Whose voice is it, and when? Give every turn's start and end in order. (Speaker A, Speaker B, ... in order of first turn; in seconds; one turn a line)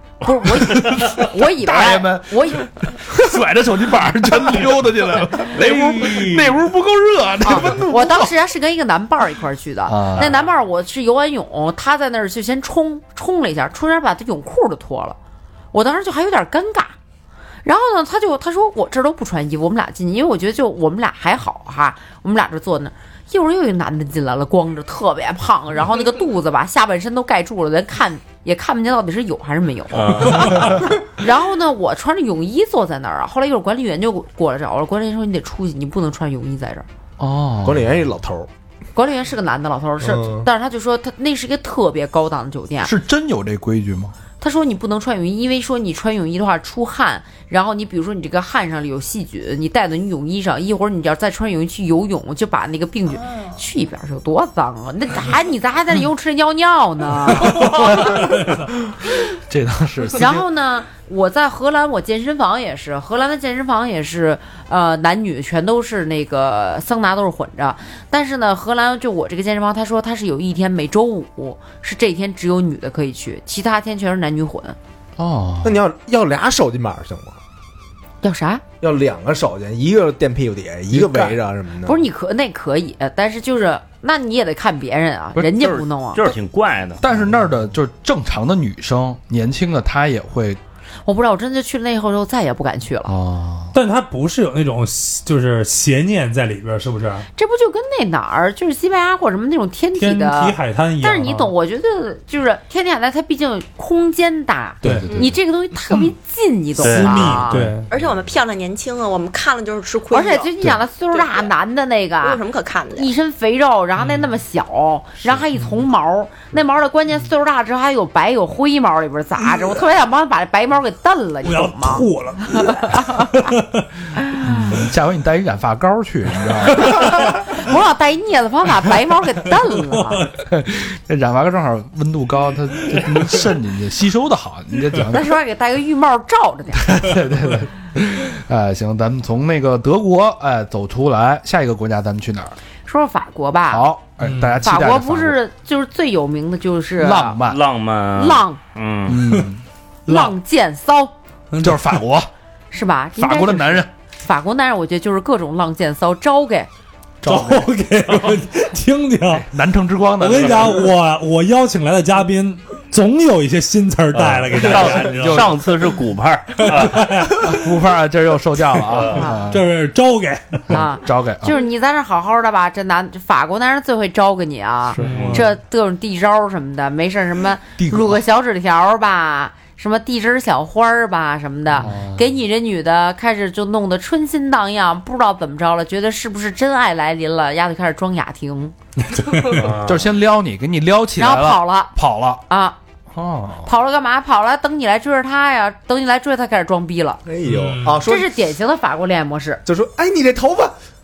Speaker A: 0.2-2.6
Speaker B: 0.4-8.3
Speaker C: 5.6-6.2
Speaker A: 7.4-15.2
Speaker B: 9.9-10.3
Speaker A: 15.7-16.9
Speaker A: 17.6-36.9
Speaker C: 29.9-30.8
Speaker B: 37.2-38.0
Speaker D: 37.6-38.5
Speaker A: 38.9-42.9
Speaker D: 40.0-40.5
Speaker B: 42.8-44.1
Speaker A: 44.4-58.2
Speaker B: 57.5-58.2
Speaker B: 59.3-60.5
Speaker A: 60.2-74.8
Speaker B: 75.2-75.8
Speaker D: 75.6-77.4
Speaker A: 78.2-78.6
Speaker D: 78.8-82.0
Speaker B: 80.9-81.4
Speaker A: 81.8-86.3
Speaker C: 85.6-87.0
Speaker B: 87.0-90.6
Speaker A: 91.0-93.1
Speaker B: 93.0-93.7
Speaker E: 93.7-97.2
Speaker A: 97.3-107.6
Speaker E: 100.0-101.5
Speaker E: 104.8-105.1
Speaker B: 104.8-105.3
Speaker E: 106.8-107.9
Speaker C: 106.8-107.4
Speaker F: 107.9-110.5
Speaker A: 110.1-112.4
Speaker F: 111.1-111.5
Speaker F: 112.2-113.1
Speaker A: 112.9-123.5
Speaker E: 114.0-114.3
Speaker E: 121.4-123.8
Speaker A: 124.1-124.8
Speaker B: 124.4-127.1
Speaker A: 126.8-130.3
Speaker E: 130.0-130.3
Speaker B: 130.4-135.3
Speaker A: 135.1-137.0
Speaker B: 136.7-142.6
Speaker A: 142.8-143.9
Speaker B: 143.7-145.4
Speaker E: 144.2-144.7
Speaker A: 144.6-147.4
Speaker B: 147.0-147.6
Speaker C: 147.5-149.2
Speaker A: 148.1-148.6
Speaker B: 149.1-149.6
Speaker E: 150.1-150.3
Speaker A: 150.1-151.1
Speaker E: 151.5-151.9
Speaker B: 151.6-152.3
Speaker A: 152.7-156.7
Speaker B: 153.2-153.9
Speaker B: 157.2-157.7
Speaker E: 157.2-159.5
Speaker B: 159.3-160.9
Speaker E: 160.2-165.5
Speaker C: 164.1-167.1
Speaker B: 164.4-165.6
Speaker E: 166.6-167.7
Speaker B: 167.4-169.7
Speaker A: 169.1-169.4
Speaker E: 169.5-170.8
Speaker B: 170.7-171.6
Speaker A: 170.7-188.7
Speaker B: 174.9-175.4
Speaker E: 175.0-175.5
Speaker C: 175.0-175.4
Speaker B: 177.8-178.2
Speaker B: 181.8-182.3
Speaker E: 189.2-189.6
Speaker C: 189.5-190.1
Speaker B: 189.7-192.4
Speaker A: 191.2-191.9
Speaker A: 192.5-192.8
Speaker B: 193.1-193.7
Speaker A: 193.6-197.2
Speaker D: 197.2-198.3
Speaker E: 197.4-198.0
Speaker A: 198.0-199.6
Speaker D: 199.7-200.7